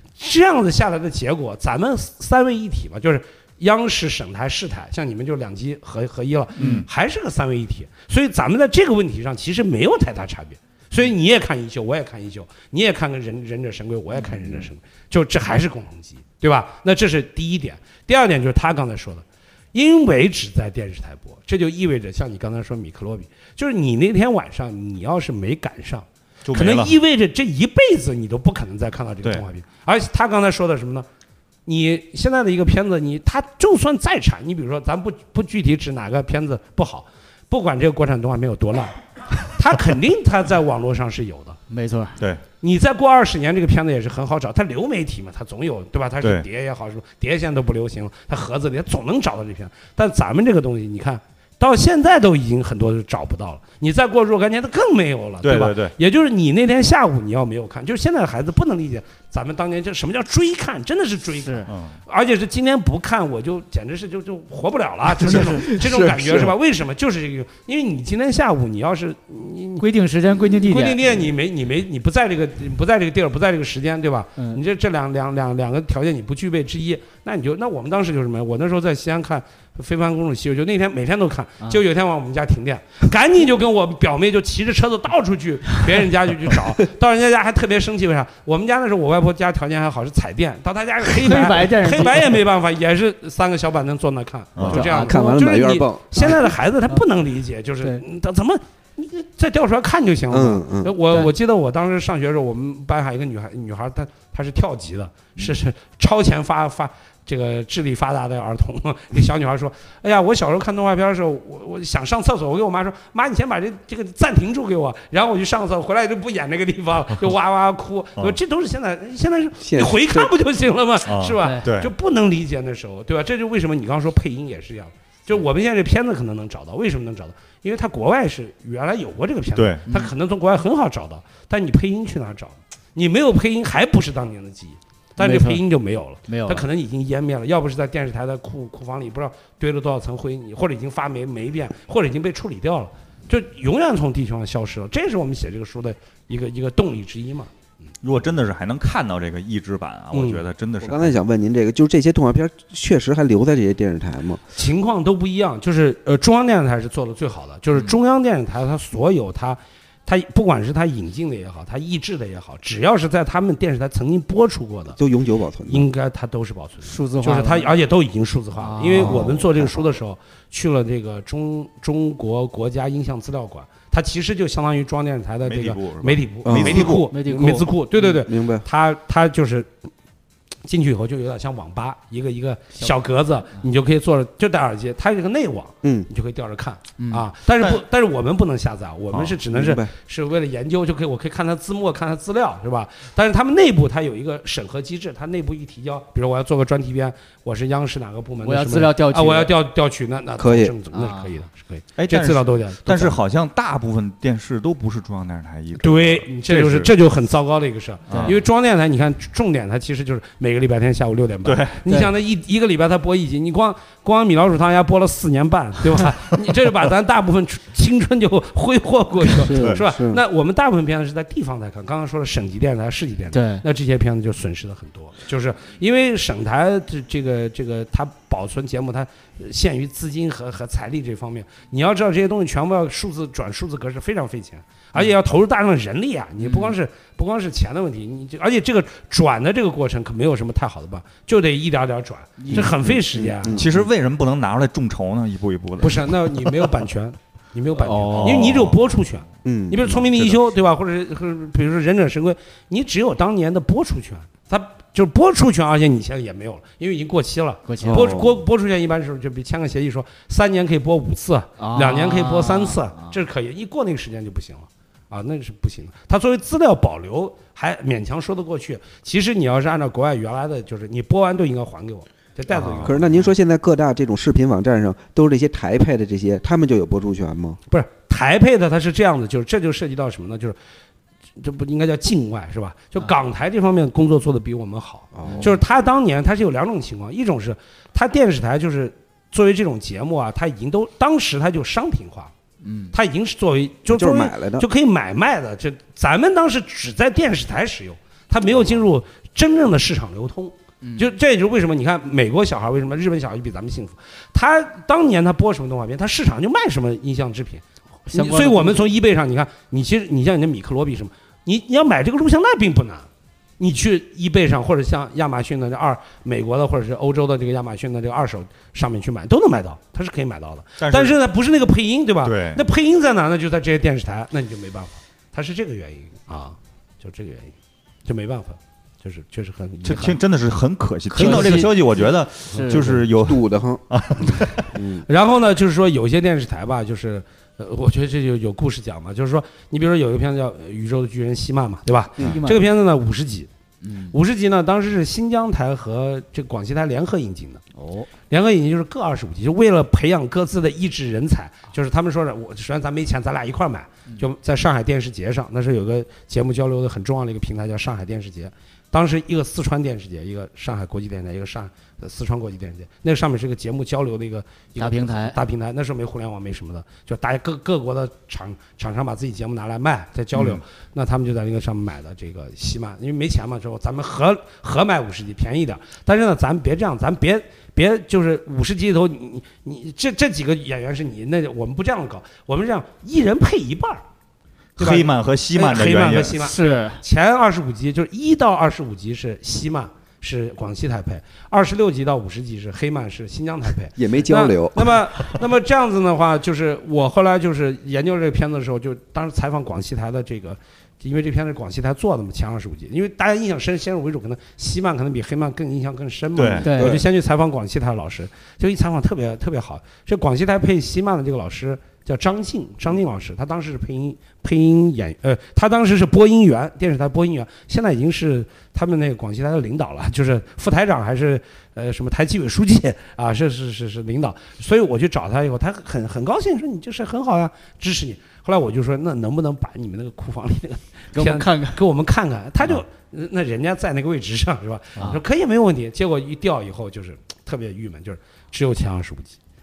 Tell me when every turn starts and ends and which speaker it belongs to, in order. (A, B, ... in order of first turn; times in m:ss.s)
0:00.2-0:31.1 A
0:06.6-0:06.9 B
0:14.2-0:14.6 C
0:26.4-0:27.0 B
0:31.6-0:41.6 A
0:41.7-0:42.2 C
0:42.6-1:09.8 A
0:46.2-0:46.5 B
0:55.4-0:55.9 B
1:01.4-1:01.7 C
1:01.7-1:02.0 B
1:05.2-1:06.5 D
1:05.2-1:05.6 C
1:09.8-1:11.3 C
1:10.5-2:27.5 A
1:31.0-1:32.4 C
1:34.6-1:34.8 B
1:34.6-1:35.2 C
1:34.8-1:36.3 D
1:36.2-1:37.0 C
1:40.3-1:41.0 D
1:59.6-2:00.3 D
2:01.0-2:01.9 B
2:09.6-2:09.8 B
2:15.2-2:15.6 C
2:16.3-2:16.6 C
2:28.0-2:31.2 B
2:30.1-2:30.4 A
2:30.8-2:34.4 D
2:34.5-2:45.0 A
2:45.0-2:45.9 D
2:45.7-2:59.7 A
2:46.8-2:47.7 C
2:48.6-2:49.4 C
2:49.0-2:49.7 D
2:55.4-2:57.1 B
2:56.4-2:56.9 D
2:57.1-2:57.7 C
2:58.0-2:58.6 D
3:00.6-3:23.2 A
3:05.8-3:06.1 D
3:07.0-3:07.3 C
3:09.5-3:09.9 D
3:18.4-3:19.5 C
3:20.4-3:20.7 D
3:20.9-3:21.3 C
3:22.0-3:26.9 B
3:25.8-4:03.6 A
3:28.1-3:28.4 B
3:28.1-3:28.4 C
3:31.4-3:31.8 B
3:39.2-3:39.8 C
3:39.5-3:40.2 D
3:43.3-3:43.6 C
3:56.4-3:56.7 C
4:02.4-4:02.8 C
4:02.5-4:03.8 D
4:03.5-4:06.6 B
4:05.8-4:33.1 A
4:07.8-4:08.7 C
4:08.1-4:08.8 B
4:09.4-4:10.0 D
4:10.0-4:10.4 B
4:17.7-4:18.2 C
4:17.8-4:18.4 D
4:21.6-4:23.2 C
4:32.5-4:33.3 C
4:32.8-4:37.6 D
4:37.7-4:40.6 A
4:41.4-4:52.3 A
4:45.1-4:45.6 D
4:45.2-4:45.5 C
4:52.6-4:52.9 C
4:52.9-5:13.1 A
4:53.9-4:54.7 D
5:00.8-5:01.1 C
5:08.1-5:08.9 C
5:13.6-5:30.2 A
5:20.8-5:21.1 B
5:22.2-5:22.6 B
5:29.8-5:34.7 B
5:31.1-5:33.0 C
5:31.1-5:31.7 A
5:32.8-5:33.8 D
5:34.7-5:35.0 D
5:35.1-5:43.5 A
5:42.2-5:42.6 C
5:43.8-5:44.2 C
5:44.1-5:47.6 A
5:47.8-5:48.1 C
5:48.3-6:24.0 A
6:04.8-6:05.4 C
6:10.4-6:10.6 B
6:24.8-6:26.4 B
6:24.8-7:19.4 A
6:26.3-6:27.0 C
6:34.0-6:35.0 D
6:46.4-6:46.6 B
6:46.6-6:47.0 C
6:46.6-6:47.0 D
7:11.1-7:11.8 C